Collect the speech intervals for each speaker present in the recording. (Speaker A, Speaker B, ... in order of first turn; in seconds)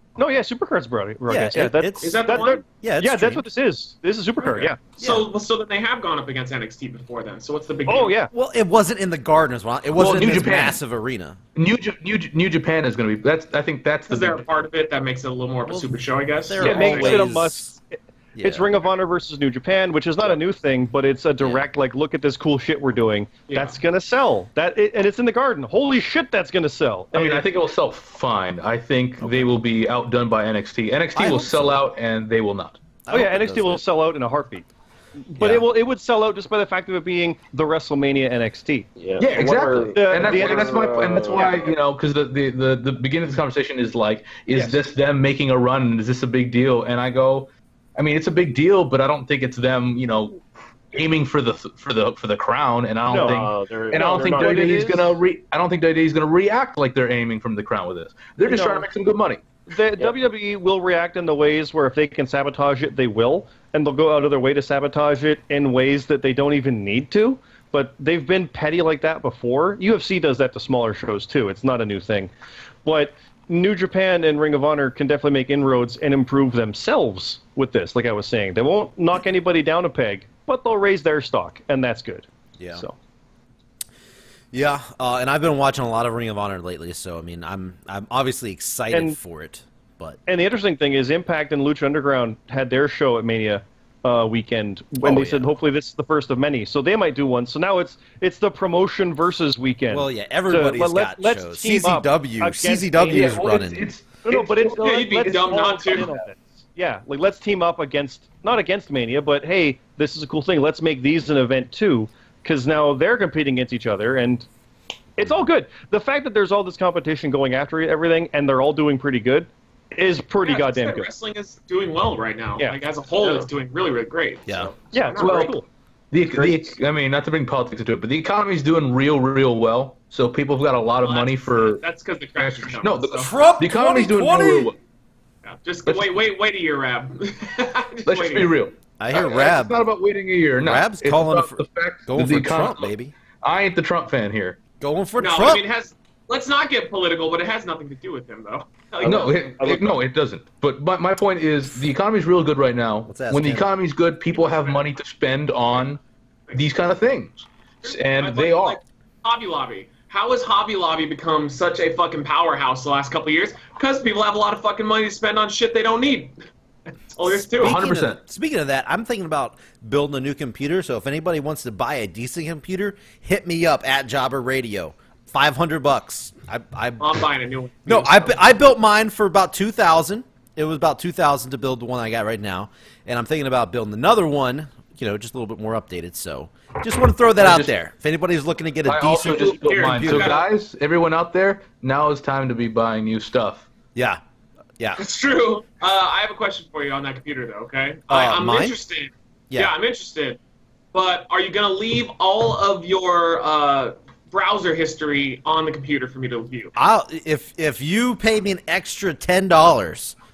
Speaker A: 0.2-4.8, 7.9-8.3, 16.6-27.5, 33.1-34.7, 35.3-38.9, 39.9-41.4, 44.5-44.8, 53.1-55.2, 58.4-58.9, 59.7-72.3, 72.8-83.0, 88.9-89.2, 90.2-103.4, 104.2-114.5, 115.2-121.1, 124.9-125.7
Speaker B: 1.3-3.4, 5.0-5.2, 8.3-11.4, 15.7-17.7, 18.3-18.7, 21.4-21.6, 29.2-29.5, 31.1-31.8, 33.0-33.8, 35.4-35.6, 82.6-82.8, 84.5-90.2, 95.0-95.5, 99.9-103.9, 133.2-134.7, 139.0-139.8, 140.6-143.1, 144.8-145.6, 153.1-153.7, 167.6-177.2, 177.8-190.4, 193.9-194.2, 198.1-198.8, 206.8-210.2
Speaker C: 2.0-2.6, 5.0-8.2, 14.1-17.3, 23.5-23.8, 104.7-106.1, 120.4-125.6, 131.0-133.3, 135.4-138.5, 145.2-149.5, 154.3-154.9, 157.8-166.3, 167.1-167.9, 177.0-178.3, 189.3-190.4, 194.9-200.4, 200.9-206.7
Speaker D: 9.9-10.8, 11.5-14.4, 27.1-32.8, 39.2-59.4, 103.1-105.3, 125.2-125.5, 126.1-131.8, 132.4-134.8, 135.8-136.1, 138.1-144.6, 149.0-156.0, 156.5-158.8, 167.6-168.2, 187.4-187.7, 188.8-193.7
Speaker E: 39.0-41.7, 53.1-54.8, 149.0-149.9